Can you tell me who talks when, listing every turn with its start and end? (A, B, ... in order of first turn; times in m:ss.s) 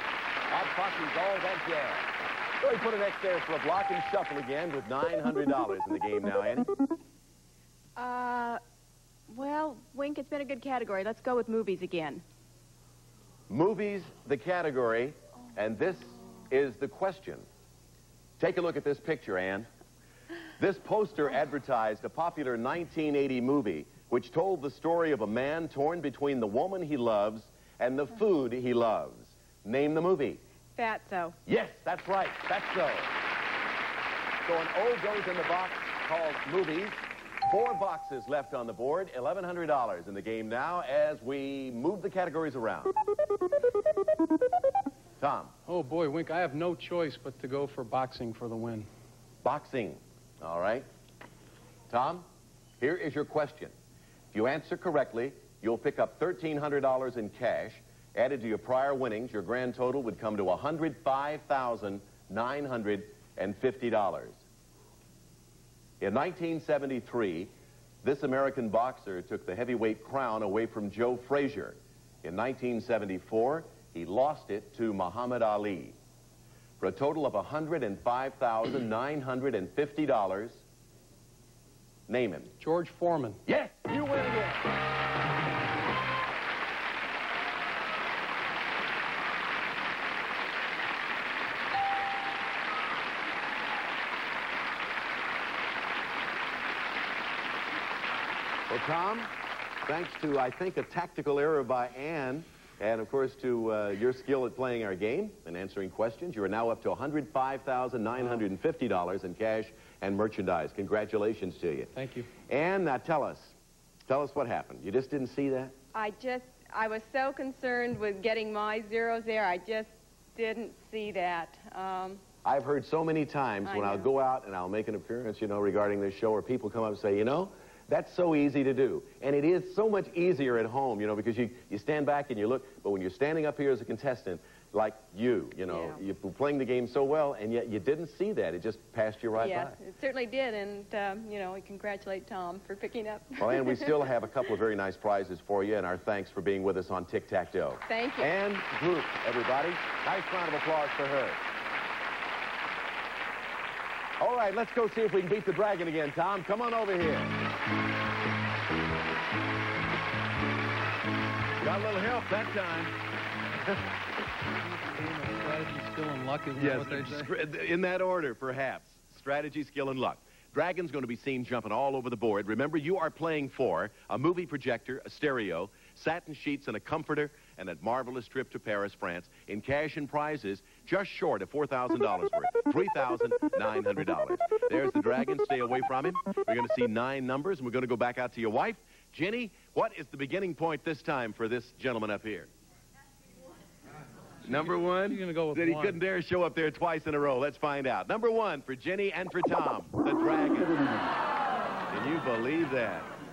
0:00.5-0:02.1 A
0:02.6-0:06.7 A
0:08.0-0:08.6 B
0:09.3-0:12.2 B
0:13.5-0:17.4 A
0:18.4-0:19.7 A
0:20.6-0:30.4 A
0:30.8-0:31.4 B
0:31.4-0:33.1 A
0:34.4-0:42.9 A
0:45.2-0:45.5 A
0:45.6-0:48.9 C
0:49.4-0:50.8 A
0:51.9-0:52.2 A
0:52.8-0:53.7 A
0:54.3-1:04.4 A
1:06.0-1:07.5 A
1:08.0-1:16.0 A
1:16.8-1:20.6 A
1:22.1-1:22.5 A
1:22.6-1:23.4 C
1:23.4-1:24.6 A
1:38.7-1:39.3 A
1:39.8-1:51.9 A
1:51.9-1:52.3 C
1:52.5-1:53.5 A
1:54.1-1:55.7 A
1:55.9-2:02.2 B
2:02.4-2:19.8 A
2:03.6-2:04.1 B
2:15.7-2:16.0 B
2:19.4-2:24.1 B
2:23.4-2:31.4 A
2:27.9-2:28.3 B
2:34.2-2:37.3 A
2:41.6-2:43.0 A
2:44.6-2:47.3 C
2:46.6-3:12.5 A
3:14.4-3:21.0 A
3:14.5-3:16.0 C
3:21.9-3:23.1 A